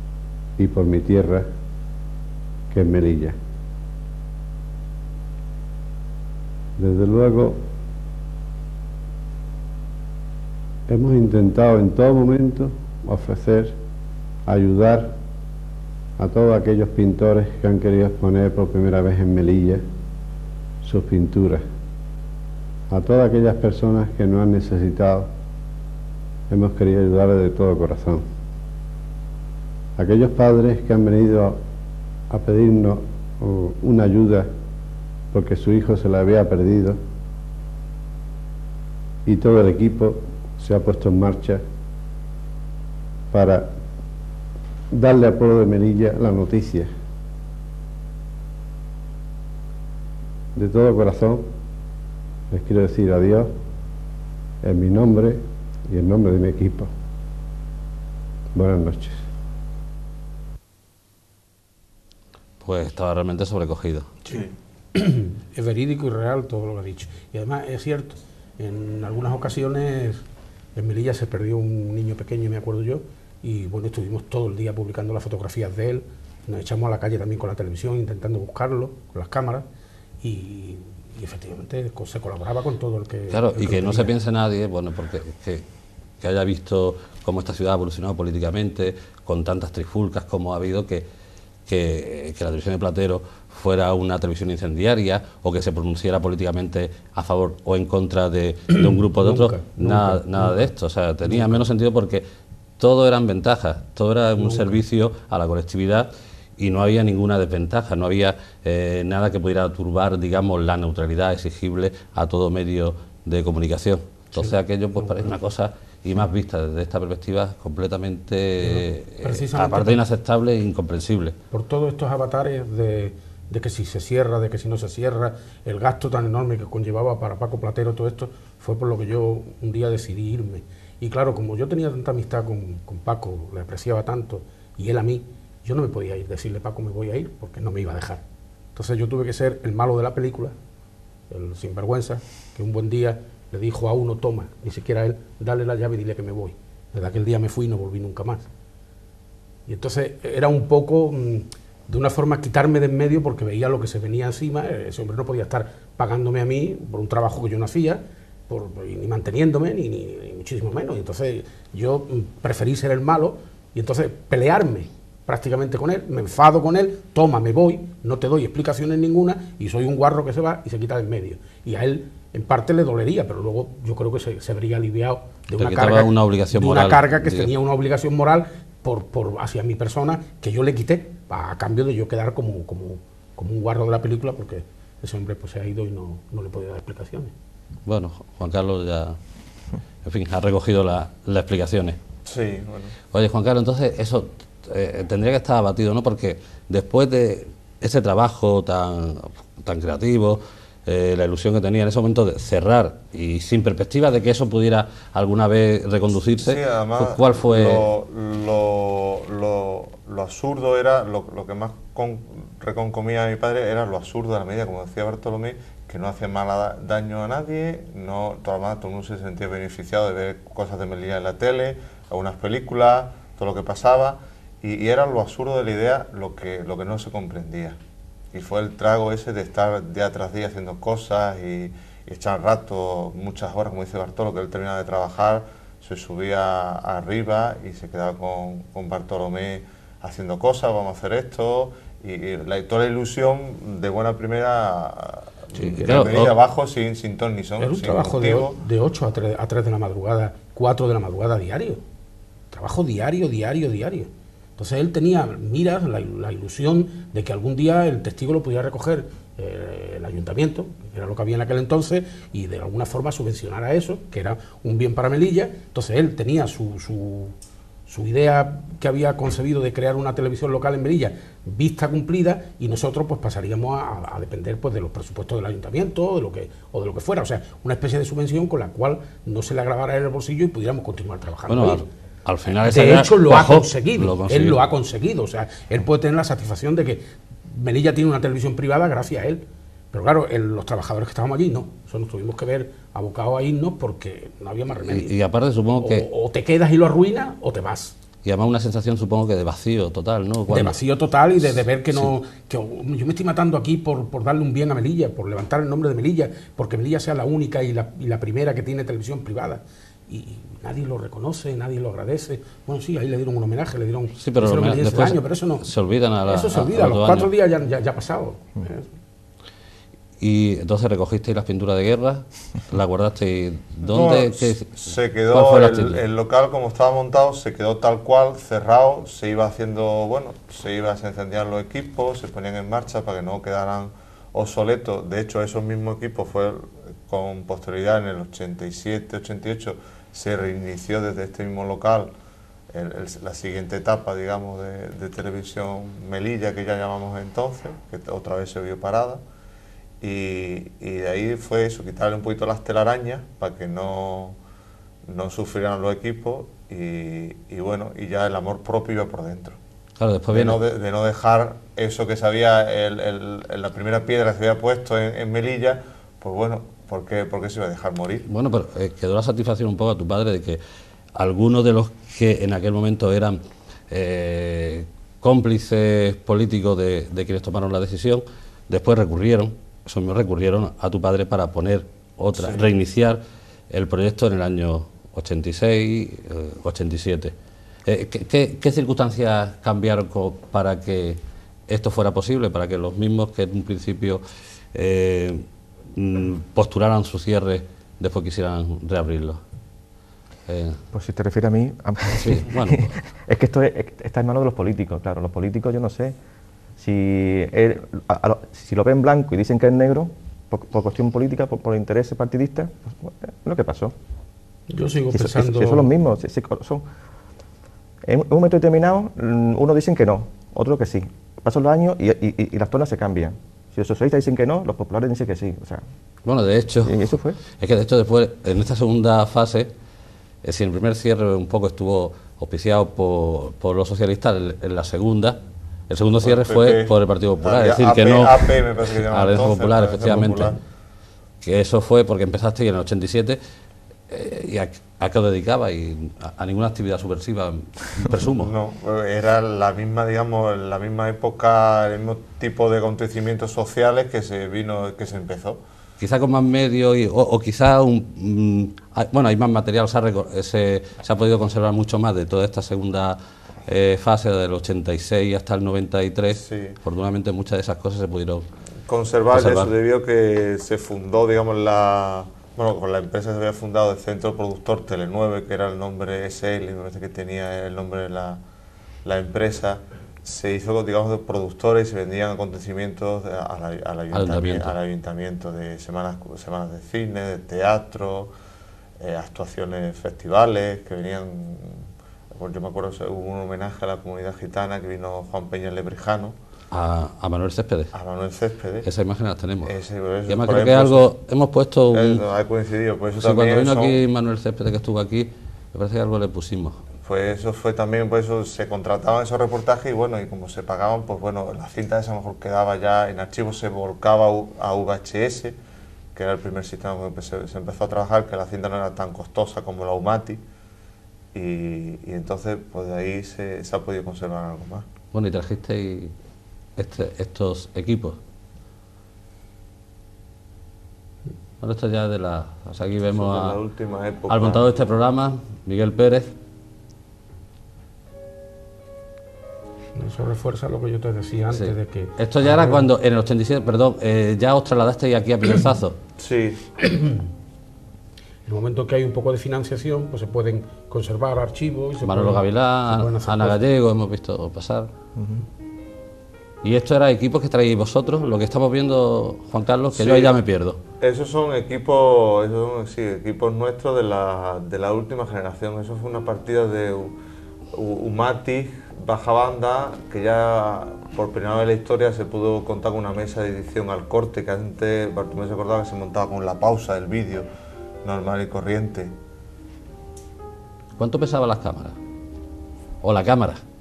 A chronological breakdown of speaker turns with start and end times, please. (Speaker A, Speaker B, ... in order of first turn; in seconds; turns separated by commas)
Speaker A: 0.6-1.5, Speaker A: 2.7-3.4, Speaker A: 6.8-7.6, Speaker A: 10.9-13.8, Speaker A: 14.5-15.2, Speaker A: 16.2-19.8, Speaker A: 20.8-21.7, Speaker A: 22.9-25.3, Speaker A: 26.5-28.3, Speaker A: 30.0-31.6, Speaker A: 32.3-34.5, Speaker A: 35.3-37.0, Speaker A: 39.3-41.6, Speaker A: 43.3-43.8, Speaker A: 44.9-46.9, Speaker A: 50.5-51.5, Speaker A: 52.5-53.5, Speaker A: 54.6-56.9, Speaker A: 58.5-59.3, Speaker B: 62.6-64.1, Speaker C: 64.3-79.7, Speaker C: 80.2-84.1, Speaker B: 83.3-85.7, Speaker B: 86.2-91.1, Speaker B: 91.7-102.3, Speaker C: 98.7-100.7, Speaker C: 101.3-101.6, Speaker B: 102.8-121.4, Speaker C: 104.4-104.8, Speaker C: 114.3-115.3, Speaker C: 118.6-120.0, Speaker C: 121.5-138.2, Speaker C: 138.8-140.6, Speaker C: 141.3-148.5, Speaker C: 149.7-187.3, Speaker B: 175.6-177.5, Speaker B: 187.9-189.2, Speaker B: 190.1-192.0, Speaker D: 192.3-193.0, Speaker B: 193.1-207.9, Speaker D: 206.4-227.8, Speaker D: 228.3-248.6, Speaker B: 245.6-246.4, Speaker C: 247.6-251.8, Speaker C: 252.5-267.3, Speaker C: 267.9-281.9, Speaker B: 281.5-284.6, Speaker C: 282.6-295.2, Speaker B: 294.9-296.1, Speaker C: 295.8-298.0, Speaker B: 298.2-300.8, Speaker C: 300.5-315.7, Speaker B: 314.2-317.3, Speaker C: 316.3-318.9, Speaker B: 320.2-326.0, Speaker D: 323.8-342.1, Speaker D: 342.7-349.2, Speaker D: 350.0-354.4, Speaker D: 355.1-359.6, Speaker B: 360.0-360.6, Speaker D: 360.3-368.3, Speaker B: 368.3-370.6, Speaker B: 371.2-383.2, Speaker B: 383.7-387.4, Speaker B: 387.9-394.2, Speaker B: 394.7-399.4, Speaker B: 400.5-400.8, Speaker E: 400.9-406.2, Speaker B: 402.2-402.9, Speaker E: 406.8-413.9, Speaker C: 414.7-415.9, Speaker E: 415.1-416.9, Speaker E: 418.1-425.8, Speaker B: 426.2-429.7, Speaker E: 426.8-427.4, Speaker B: 430.4-435.4, Speaker B: 435.9-440.6, Speaker D: 436.2-440.6, Speaker B: 441.4-443.4, Speaker B: 444.1-448.5, Speaker D: 448.3-455.6, Speaker B: 456.0-468.4, Speaker D: 466.3-466.8, Speaker D: 468.9-478.4, Speaker B: 469.3-469.7, Speaker D: 479.1-488.3, Speaker B: 484.1-484.8, Speaker D: 489.0-496.4, Speaker B: 496.7-497.9, Speaker D: 497.9-498.9, Speaker B: 498.8-499.8, Speaker D: 499.6-501.1, Speaker B: 500.3-502.2, Speaker D: 501.9-504.0, Speaker B: 503.2-506.8, Speaker D: 507.0-515.6, Speaker D: 516.1-520.4, Speaker D: 521.3-524.9, Speaker B: 525.1-526.1, Speaker B: 526.8-528.2, Speaker B: 531.6-533.6, Speaker D: 533.1-534.7, Speaker B: 534.3-536.3, Speaker C: 540.0-542.9, Speaker B: 541.5-546.0, Speaker D: 546.2-546.6, Speaker C: 546.8-547.2, Speaker C: 548.5-553.6, Speaker B: 552.0-554.9, Speaker E: 555.2-555.4, Speaker B: 556.6-560.8, Speaker D: 560.0-560.4, Speaker D: 561.0-567.1, Speaker D: 567.7-577.5, Speaker D: 578.0-579.1, Speaker B: 581.0-582.0, Speaker B: 583.0-583.6